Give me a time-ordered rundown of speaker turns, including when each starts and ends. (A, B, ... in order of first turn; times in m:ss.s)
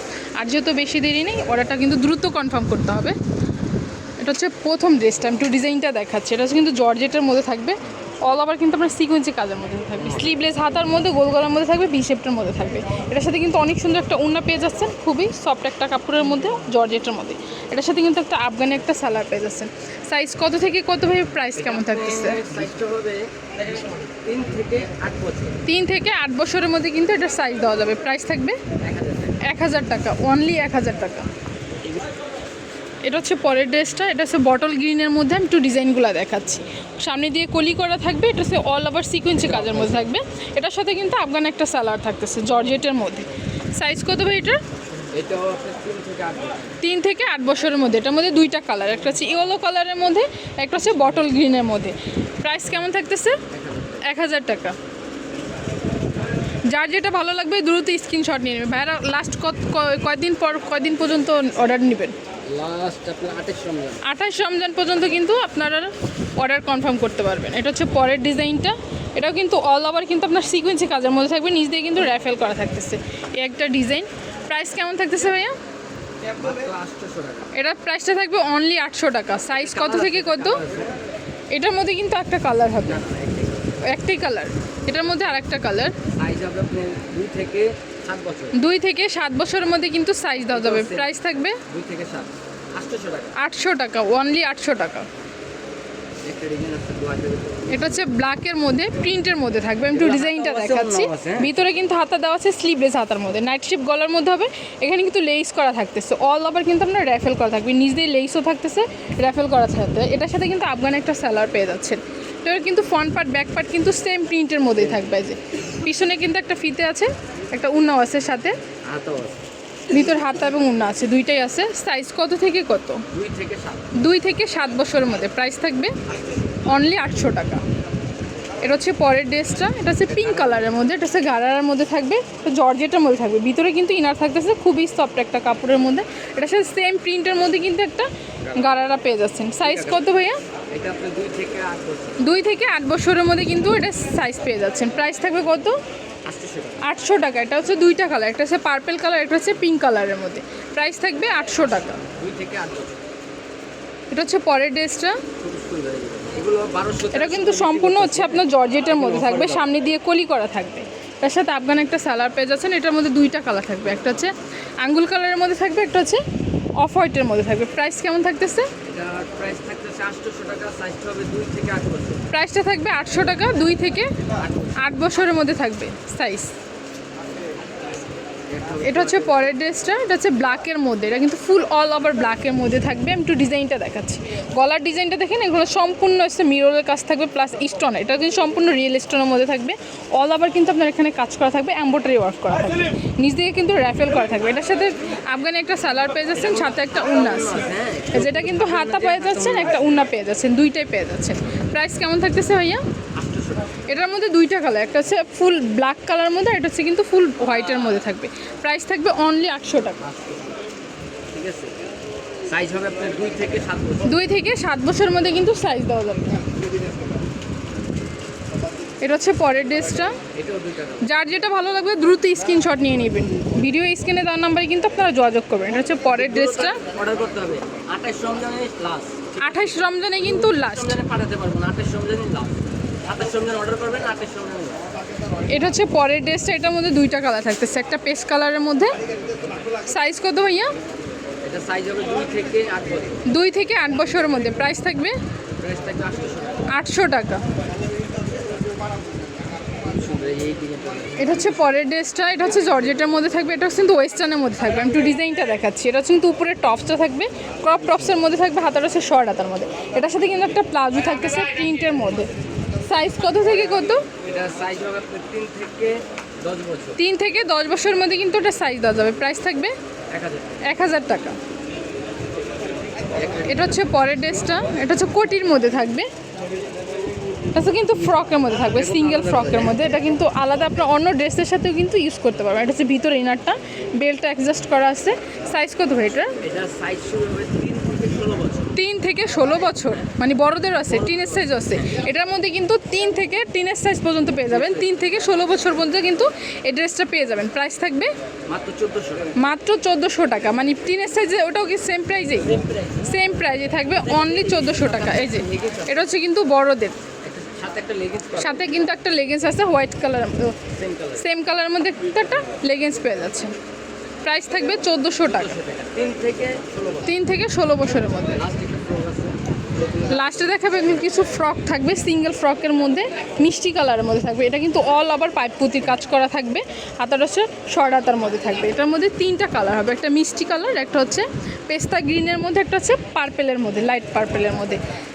0:00.4-0:03.2 A
0:04.2-0:22.4 A
0:21.5-0:25.6 B
0:25.6-0:28.6 A
0:28.8-0:29.4 B
0:29.4-0:31.3 A
0:31.8-0:32.1 B
0:33.0-0:44.6 A
0:39.4-0:40.1 B
0:45.1-0:46.7 B
0:46.8-0:53.4 A
0:53.5-0:54.0 B
0:54.0-0:54.8 A
0:56.7-1:02.2 A
1:02.5-1:04.0 B
1:04.0-1:15.6 A
1:16.4-1:17.5 B
1:17.5-1:20.6 A
1:19.5-1:20.9 B
1:21.5-1:23.0 A
1:22.8-1:24.0 B
1:23.8-1:26.0 A
1:26.1-1:28.6 B
1:28.5-1:31.6 A
1:30.5-1:33.3 B
1:33.4-1:35.1 A
1:36.2-1:38.0 B
1:37.7-1:58.6 A
1:39.9-1:41.6 B
1:58.8-1:59.4 B
1:59.9-2:03.0 A
2:03.1-2:03.9 B
2:04.0-2:06.0 A
2:06.7-2:07.6 A
2:08.6-2:20.4 A
2:10.2-2:10.6 B
2:18.4-2:18.9 B
2:19.6-2:20.0 B
2:20.7-2:22.2 B
2:22.2-2:25.8 A
2:26.2-2:26.8 B
2:26.8-2:32.0 A
2:32.1-2:33.0 B
2:34.1-2:35.2 A
2:35.4-2:39.7 B
2:37.1-2:46.2 A
2:46.8-2:48.7 A
2:48.8-2:52.3 B
2:52.3-2:54.2 A
2:54.4-2:54.8 B
2:54.8-2:56.5 A
2:58.5-2:59.5 B
2:58.8-3:22.8 A
3:16.3-3:20.0 B
3:23.2-3:23.8 B
3:23.9-3:30.0 A
3:30.0-3:30.6 B
3:31.3-3:31.7 B
3:32.4-3:34.1 B
3:34.0-3:36.4 A
3:39.0-3:40.2 A
3:40.3-3:41.1 B
3:41.0-3:46.8 A
3:46.1-3:54.8 B
3:49.4-3:51.0 A
3:55.5-3:58.9 A
3:59.8-4:00.7 A
4:01.4-4:03.2 B
4:03.3-4:05.2 A
4:05.6-4:06.7 B
4:06.7-4:07.4 A
4:09.8-4:11.7 B
4:11.2-4:22.3 A
4:22.8-4:24.1 A
4:24.2-4:27.0 B
4:27.0-4:29.7 A
4:30.1-4:30.7 B
4:30.6-4:31.4 A
4:33.1-4:34.0 B
4:33.4-4:36.1 A
4:37.5-4:46.4 A
4:38.7-4:39.8 B
4:46.4-4:48.8 B
4:48.8-4:58.1 A
4:50.8-4:51.8 B
4:54.5-4:54.9 B
4:58.5-4:59.4 B
4:59.4-5:07.0 A
5:02.5-5:03.0 B
5:04.0-5:06.1 B
5:07.2-5:08.8 B
5:08.4-5:10.6 A
5:10.7-5:11.2 B
5:11.2-5:13.5 A
5:14.2-5:15.6 A
5:15.2-5:17.1 B
5:17.0-5:18.4 A
5:18.3-5:21.2 B
5:20.1-5:34.8 A